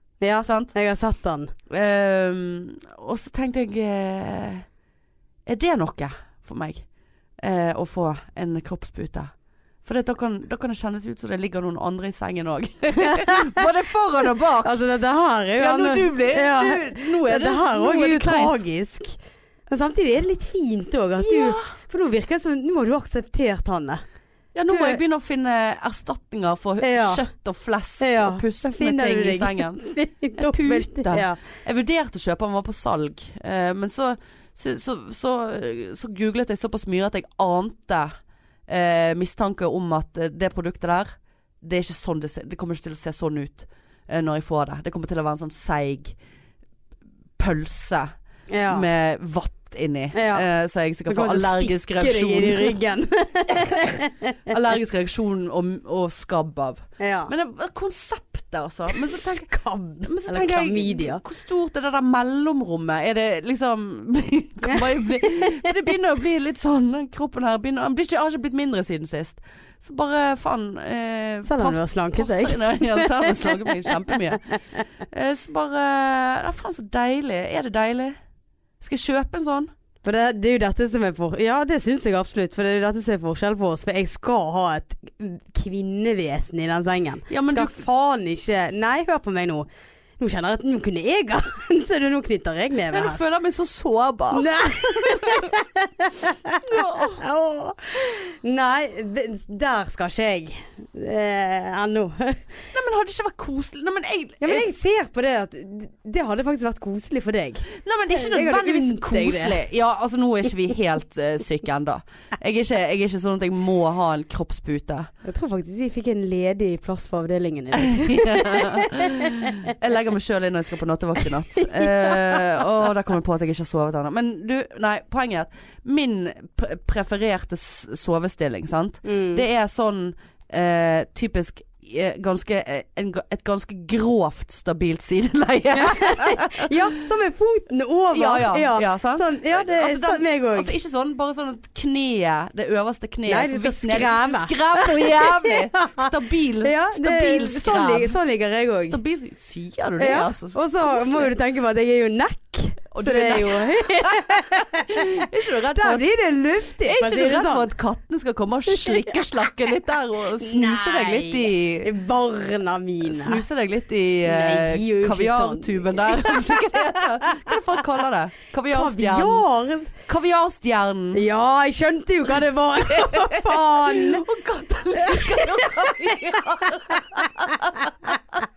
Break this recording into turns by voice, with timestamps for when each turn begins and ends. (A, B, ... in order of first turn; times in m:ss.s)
0:00.2-0:01.5 A
0:00.4-0:00.7 B
0:01.7-0:04.6 B
0:05.4-0:06.8 B
0:07.4-0:09.3 B
0:09.8-0:14.8 B
0:13.0-0:13.6 A
0:14.6-0:19.2 A
0:15.6-0:18.6 B
0:19.7-0:24.0 A
0:21.2-0:21.6 B
0:24.5-0:29.8 B
0:24.7-0:25.0 A
0:26.8-0:27.2 A
0:28.0-0:31.4 A
0:30.4-0:38.1 B
0:38.7-0:41.1 B
0:41.6-0:46.1 B
0:47.4-0:48.1 B
0:48.5-0:48.8 A
0:48.7-0:52.8 B
0:50.1-0:50.5 A
0:51.0-0:54.4 A
0:54.5-0:59.5 B
0:57.0-0:57.3 A
0:58.9-1:01.2 A
1:00.0-1:14.5 B
1:05.4-1:05.6 A
1:11.4-1:14.1 A
1:15.1-1:18.2 B
1:18.8-1:19.7 B
1:20.0-1:29.7 A
1:27.3-1:27.8 B
1:30.2-1:33.2 A
1:32.9-1:35.5 B
1:34.3-1:42.5 A
1:36.6-1:37.2 B
1:42.7-1:44.7 B
1:44.4-1:49.6 A
1:47.8-1:55.1 B
1:55.2-1:59.7 A
1:57.7-2:16.8 B
2:01.6-2:02.4 A
2:09.0-2:09.4 A
2:15.7-2:20.7 A
2:18.1-2:28.2 B
2:23.2-2:29.0 A
2:28.9-2:31.3 B
2:30.0-2:37.7 A
2:32.9-2:36.0 B
2:36.8-2:41.9 B
2:38.7-2:39.4 A
2:40.4-2:43.4 A
2:43.0-2:49.4 B
2:44.2-2:47.5 A
2:48.7-2:49.9 A
2:50.1-2:51.2 B
2:51.1-2:54.2 A
2:52.9-2:58.4 B
2:55.0-2:58.2 A